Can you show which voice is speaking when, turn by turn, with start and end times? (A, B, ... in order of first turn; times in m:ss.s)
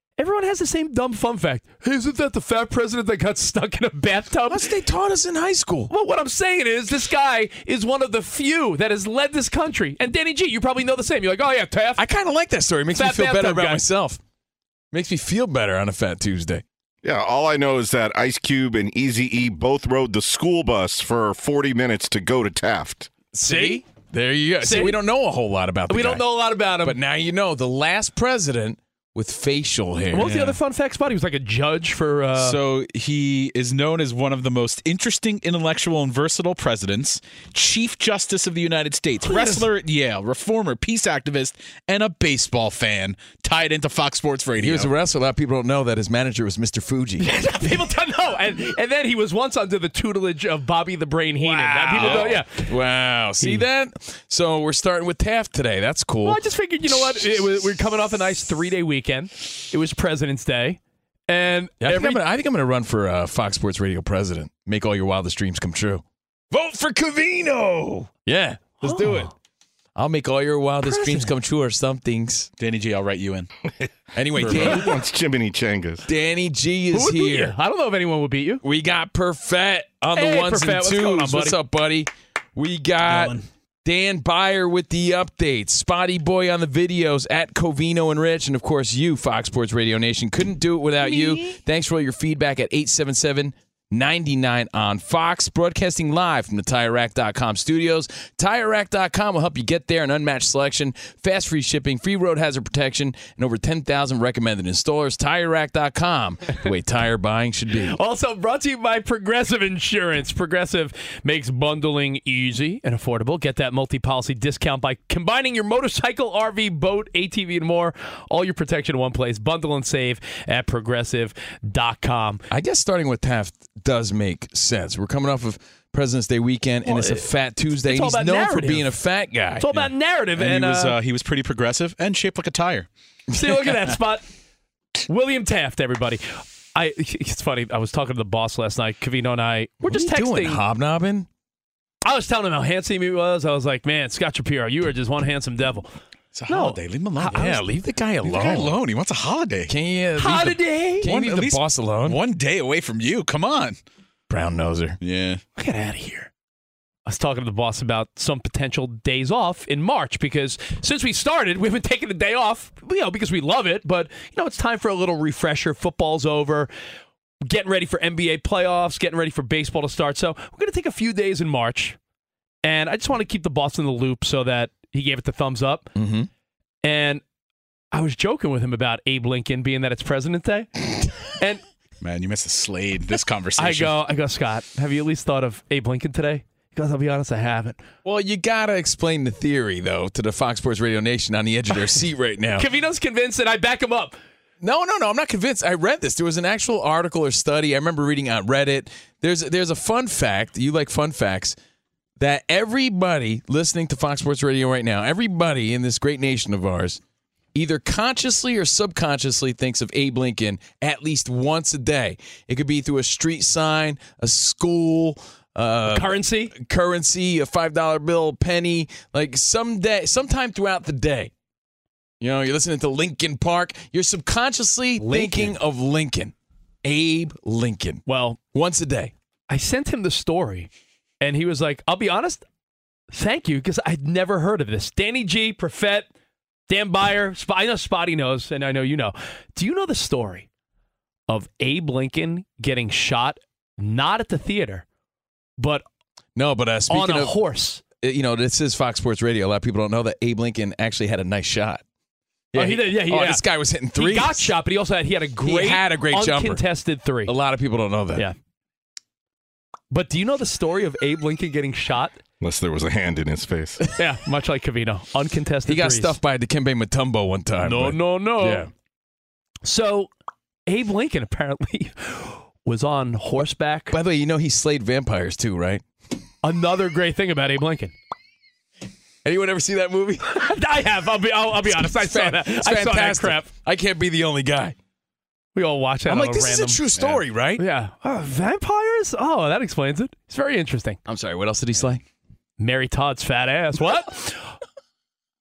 0:00.2-0:04.7 A
0:04.5-0:05.9 B
0:05.9-0:12.0 A
0:12.0-0:14.2 B
0:12.9-0:13.8 A
0:14.9-0:16.6 B
0:17.0-0:23.1 C
0:23.3-0:26.2 B
0:23.4-0:23.8 A
0:24.6-0:25.0 A
0:25.9-0:27.0 A
0:26.8-0:30.4 B
0:30.1-0:32.6 A
0:30.2-0:30.6 D
0:32.4-0:44.9 D
0:39.2-0:39.7 A
0:44.6-0:47.3 B
0:47.2-0:52.7 A
0:51.5-0:56.4 B
0:51.5-0:52.4 D
0:56.2-1:02.2 A
1:01.8-1:09.3 B
1:08.8-1:09.3 A
1:10.0-1:12.5 B
1:10.8-1:11.3 A
1:12.6-1:13.5 D
1:14.1-1:14.9 B
1:14.4-1:14.7 D
1:14.5-1:16.0 C
1:16.1-1:17.6 B
1:16.9-1:18.6 A
1:18.6-1:48.0 B
1:20.2-1:21.6 A
1:23.1-1:23.4 D
1:47.8-2:02.4 A
2:02.5-2:09.7 B
2:06.9-2:07.3 A
2:07.8-2:08.9 A
2:09.6-2:11.0 A
2:09.7-2:12.9 D
2:13.3-2:14.0 B
2:13.4-2:14.3 A
2:15.1-2:20.6 A
2:19.8-2:21.3 B
2:22.0-2:25.9 A
2:26.3-2:27.6 D
2:26.5-2:27.6 A
2:27.3-2:28.8 B
2:28.2-2:29.7 D
2:29.7-2:32.2 B
2:30.2-2:31.1 A
2:31.0-2:33.8 D
2:34.3-2:35.0 B
2:35.0-2:35.4 D
2:35.6-2:36.3 A
2:37.1-2:46.7 A
2:47.5-2:52.0 A
2:52.6-2:55.9 A
2:56.0-2:56.3 B
2:56.8-2:57.2 A
2:57.9-3:00.7 A
3:02.0-3:04.0 D
3:03.6-3:07.8 A
3:08.0-3:12.7 B
3:12.6-3:14.2 A
3:14.6-3:21.6 B
3:22.2-3:27.0 B
3:27.6-3:41.3 B
3:35.9-3:36.5 A
3:42.2-3:49.1 B
3:45.0-3:45.6 A
3:48.1-3:48.4 A
3:49.5-3:50.7 A
3:51.2-3:52.4 A
3:53.1-3:56.1 A
3:56.7-4:00.5 A
4:01.3-4:04.9 A
4:05.6-4:05.8 A
4:06.4-4:07.4 B
4:06.9-4:07.8 A
4:08.0-4:11.8 B
4:12.5-4:14.5 B
4:12.6-4:13.4 A
4:13.9-4:17.3 A
4:15.4-4:16.6 B
4:17.2-4:18.3 B
4:19.9-4:22.2 A
4:22.4-4:23.8 C
4:24.0-4:26.2 A
4:25.7-4:28.7 B
4:27.6-4:28.7 A
4:29.6-4:30.1 A
4:30.7-4:33.9 A
4:33.9-4:35.8 B
4:36.4-4:37.9 A
4:39.2-4:40.4 B
4:40.2-4:43.5 A
4:41.6-4:44.8 B
4:45.6-4:46.8 A
4:46.1-4:47.6 B
4:47.6-4:51.0 A
4:51.1-4:52.0 B
4:52.6-4:54.5 A